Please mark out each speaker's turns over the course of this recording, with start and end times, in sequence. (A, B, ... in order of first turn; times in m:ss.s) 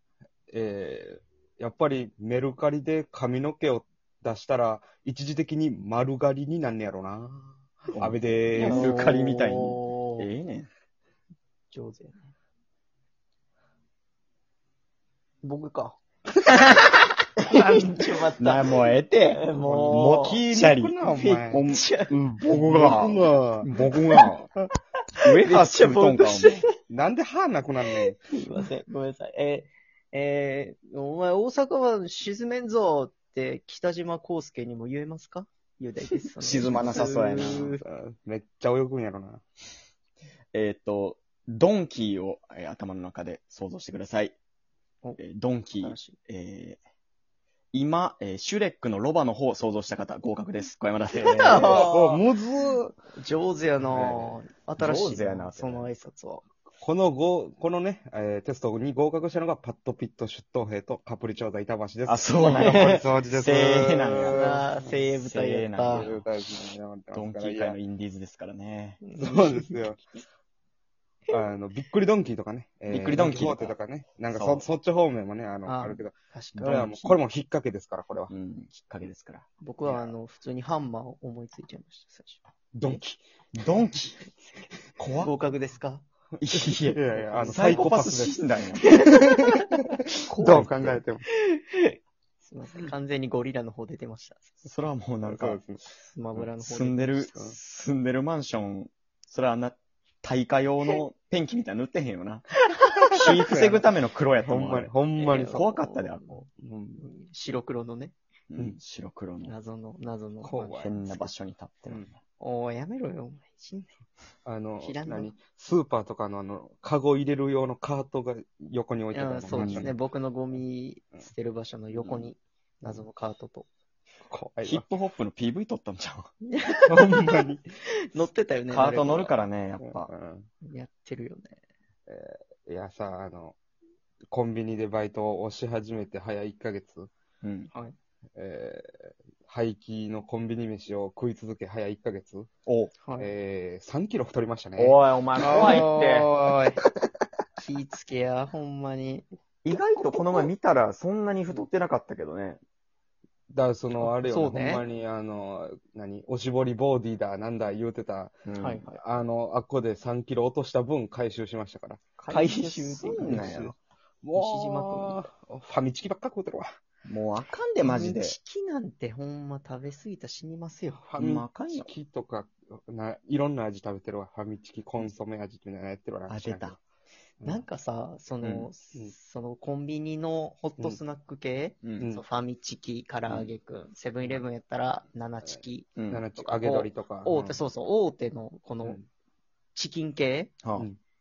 0:00.5-0:08.9 A
0:07.9-0:10.7 B
0:08.5-0:10.3 C
0:11.7-0:12.2 C
0:15.4-0:16.0 C
0:17.4-0:20.5 C
0:17.5-0:24.3 B
0:19.6-0:21.7 A
0:21.1-0:22.1 C
0:22.5-0:24.4 A
0:25.2-0:26.6 B
0:25.4-0:26.7 C
0:26.9-0:28.2 A
0:27.9-0:37.8 C
0:36.4-0:37.8 B
0:37.6-0:39.4 A
0:40.5-0:44.4 B
0:45.2-0:46.8 B
0:45.8-0:46.2 C
0:47.7-0:52.2 B
0:51.1-0:52.2 C
0:51.5-0:53.0 A
0:53.2-0:56.4 C
0:53.8-0:54.4 A
0:54.8-0:55.9 B
0:56.8-1:04.7 A
1:02.1-1:04.4 B
1:02.4-1:03.1 C
1:04.3-1:06.1 C
1:05.1-1:06.2 B
1:05.9-1:07.8 A
1:07.1-1:09.0 B
1:09.0-1:09.9 C
1:09.2-1:10.0 A
1:11.3-1:18.3 A
1:12.9-1:13.8 B
1:14.3-1:14.6 B
1:15.7-1:17.2 C
1:18.3-1:19.4 B
1:19.6-1:23.0 C
1:22.8-1:23.2 A
1:23.6-1:24.2 B
1:24.2-1:24.6 C
1:25.0-1:25.3 B
1:25.2-1:26.0 C
1:26.4-1:28.9 B
1:26.5-1:29.1 A
1:27.2-1:27.6 C
1:28.8-1:30.0 C
1:30.3-1:31.0 B
1:30.4-1:31.2 A
1:31.4-1:34.5 C
1:34.6-1:35.6 B
1:35.2-1:35.9 A
1:36.0-1:37.4 C
1:36.4-1:42.5 B
1:42.8-1:43.8 C
1:43.1-1:44.9 B
1:43.4-1:43.9 A
1:44.4-1:45.7 A
1:45.2-1:48.2 C
1:45.5-1:46.4 B
1:48.5-1:49.5 B
1:49.4-1:51.3 C
1:50.4-1:51.0 A
1:50.8-1:52.2 B
1:52.4-1:53.9 C
1:54.4-2:00.0 A
1:54.8-1:55.3 C
1:59.1-2:03.7 C
1:59.5-1:59.9 B
2:01.9-2:02.3 B
2:04.3-2:04.9 A
2:04.6-2:06.3 B
2:06.5-2:07.5 C
2:06.9-2:07.6 A
2:08.1-2:09.4 C
2:08.7-2:10.1 B
2:09.8-2:10.5 A
2:10.6-2:11.6 C
2:12.1-2:13.6 A
2:14.3-2:17.1 A
2:17.4-2:17.7 B
2:18.4-2:18.9 A
2:19.5-2:22.5 A
2:22.7-2:23.0 B
2:23.0-2:23.3 C
2:23.2-2:26.8 A
2:24.8-2:26.3 B
2:27.6-2:29.3 C
2:29.6-2:32.6 B
2:33.5-2:38.4 A
2:33.9-2:34.8 C
2:38.5-2:39.0 B
2:38.6-2:38.9 C
2:39.0-2:42.1 A
2:42.2-2:43.7 B
2:42.3-2:43.6 C
2:43.2-2:46.7 A
2:44.4-2:45.2 C
2:47.0-2:48.4 B
2:47.8-2:51.0 C
2:51.0-2:56.8 A
2:51.2-2:51.9 B
2:56.3-2:56.8 B
2:57.4-3:09.0 C
2:58.4-2:58.7 B
3:03.3-3:03.5 B
3:06.0-3:06.2 B
3:06.1-3:07.6 A
3:09.8-3:10.5 C